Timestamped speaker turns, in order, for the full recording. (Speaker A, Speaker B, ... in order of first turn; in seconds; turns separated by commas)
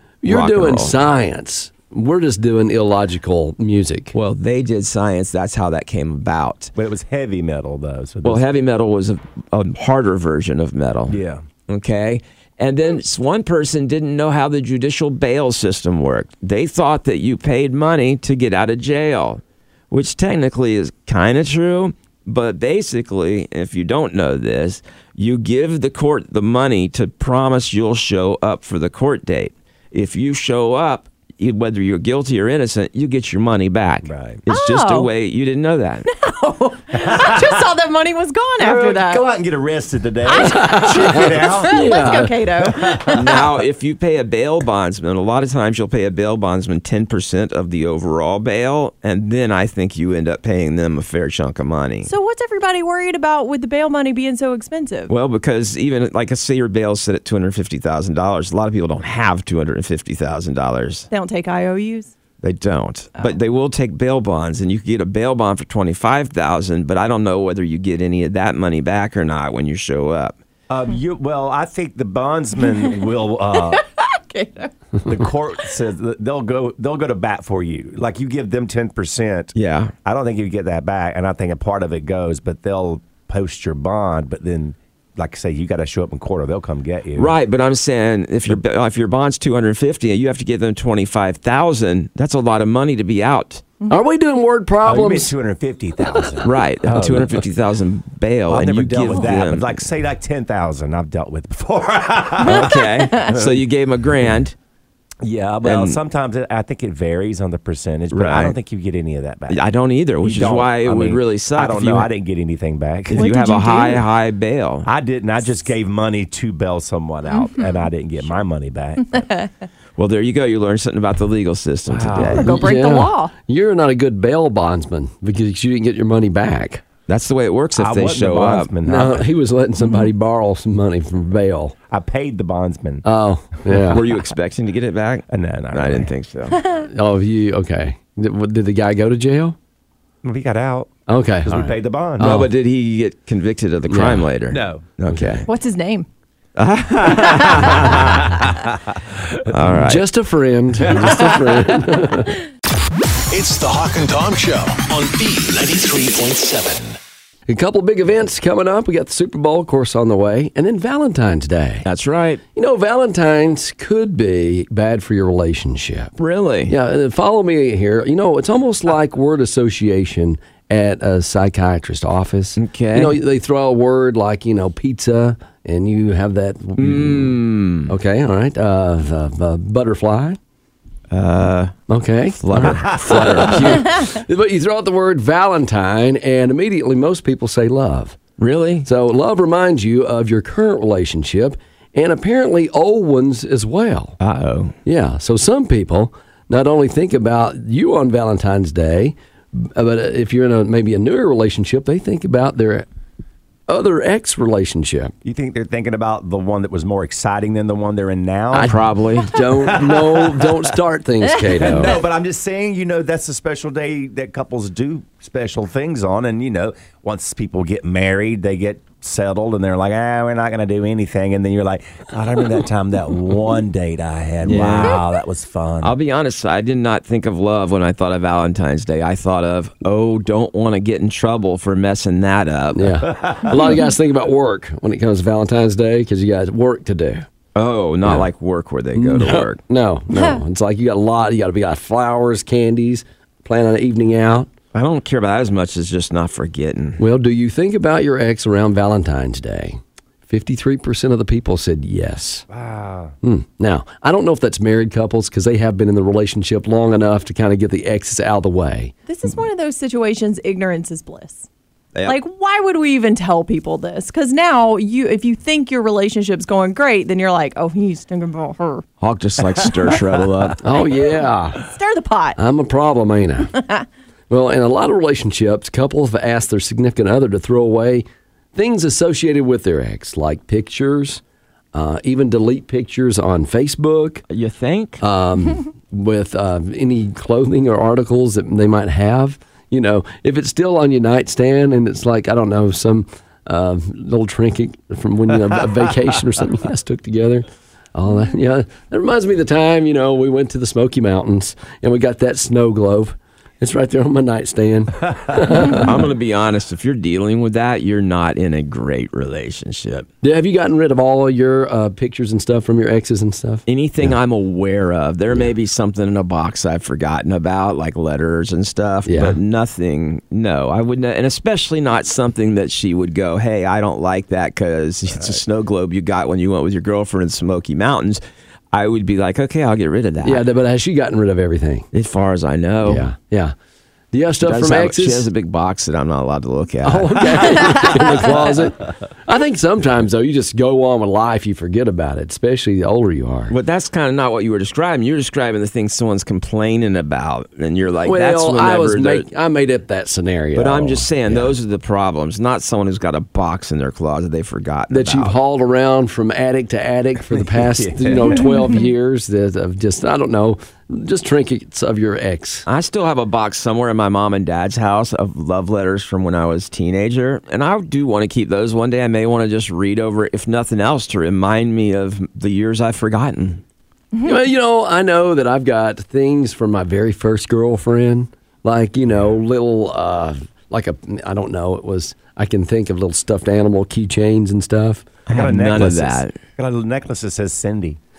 Speaker A: 0.2-4.1, Speaker B: 0.2-0.9, Speaker B: 4.1-6.7, Speaker C: 6.8-8.4, Speaker B: 8.2-36.1, Speaker C: 11.1-11.4, Speaker C: 34.0-34.4, Speaker D: 34.5-35.1, Speaker D: 36.0-39.2, Speaker C: 36.9-37.6, Speaker C: 38.6-42.1, Speaker D: 40.2-43.4, Speaker A: 40.6-42.4, Speaker C: 42.6-43.4, Speaker B: 43.1-52.1, Speaker D: 52.0-55.1, Speaker B: 55.1-61.1, Speaker D: 61.1-62.1, Speaker B: 62.4-70.3, Speaker C: 70.7-73.8, Speaker D: 73.6-74.7, Speaker C: 75.1-87.4, Speaker B: 79.6-79.9, Speaker B: 87.2-93.7, Speaker A: 93.9-95.3, Speaker C: 94.8-97.4, Speaker B: 96.4-99.8, Speaker C: 98.5-103.6, Speaker B: 102.4-104.5, Speaker C: 105.2-109.6, Speaker B: 105.6-106.0, Speaker B: 108.1-108.6, Speaker B: 109.5-112.1, Speaker C: 110.2-113.3, Speaker B: 113.1-114.9, Speaker D: 113.2-114.0, Speaker C: 114.8-119.3, Speaker B: 120.0-122.5, Speaker C: 121.9-122.5, Speaker D: 122.4-123.3, Speaker A: 122.5-126.8, Speaker B: 127.1-128.7, Speaker C: 127.8-129.2, Speaker A: 128.9-131.8, Speaker C: 131.9-133.1, Speaker A: 133.0-134.0, Speaker B: 133.9-136.6, Speaker C: 135.3-136.1, Speaker A: 136.9-139.6, Speaker C: 140.2-140.9, Speaker A: 141.1-141.7, Speaker C: 141.4-142.5, Speaker B: 142.2-145.5, Speaker A: 143.9-144.3, Speaker C: 144.5-144.9, Speaker A: 145.1-145.4, Speaker D: 145.5-146.1, Speaker B: 146.6-148.4, Speaker D: 147.1-147.7, Speaker C: 148.9-149.2, Speaker B: 149.5-150.1, Speaker A: 149.8-152.3, Speaker E: 153.3-157.0, Speaker A: 157.5-161.9, Speaker B: 161.8-162.4, Speaker A: 162.6-166.1, Speaker B: 166.2-166.7, Speaker A: 166.7-180.4, Speaker B: 172.6-173.2, Speaker B: 176.8-177.9, Speaker B: 181.1-181.8, Speaker A: 181.9-188.2, Speaker B: 182.4-184.1, Speaker B: 188.4-188.9, Speaker A: 188.8-194.2, Speaker B: 194.2-194.8, Speaker A: 194.8-202.9, Speaker A: 203.7-205.1, Speaker C: 205.2-208.8, Speaker A: 208.5-211.9, Speaker B: 208.6-209.3, Speaker C: 209.5-210.7, Speaker C: 211.5-226.0, Speaker B: 224.4-225.0, Speaker B: 225.8-233.1, Speaker A: 232.8-237.3, Speaker B: 237.6-239.6, Speaker A: 238.9-244.5, Speaker B: 244.7-247.0, Speaker A: 247.0-252.4, Speaker C: 252.5-253.1, Speaker A: 253.2-258.9, Speaker D: 259.1-261.5, Speaker D: 262.1-268.8, Speaker B: 269.0-270.6, Speaker A: 270.6-271.6, Speaker D: 270.8-272.4, Speaker A: 272.4-273.5, Speaker A: 274.3-281.2, Speaker A: 281.7-284.2, Speaker B: 284.3-285.0, Speaker A: 285.0-305.9, Speaker B: 305.6-310.1, Speaker A: 310.2-314.1, Speaker B: 313.7-328.2, Speaker A: 319.1-319.4, Speaker B: 328.7-330.4, Speaker A: 330.2-331.9, Speaker B: 331.9-333.1, Speaker A: 332.8-333.6, Speaker A: 334.1-335.3, Speaker B: 334.4-338.0, Speaker A: 336.8-343.5, Speaker B: 343.5-349.3, Speaker A: 348.1-351.6, Speaker B: 350.6-355.4, Speaker A: 354.9-362.7, Speaker C: 357.3-358.4, Speaker B: 362.7-373.6, Speaker A: 374.2-385.1, Speaker B: 385.3-386.4, Speaker C: 385.3-388.0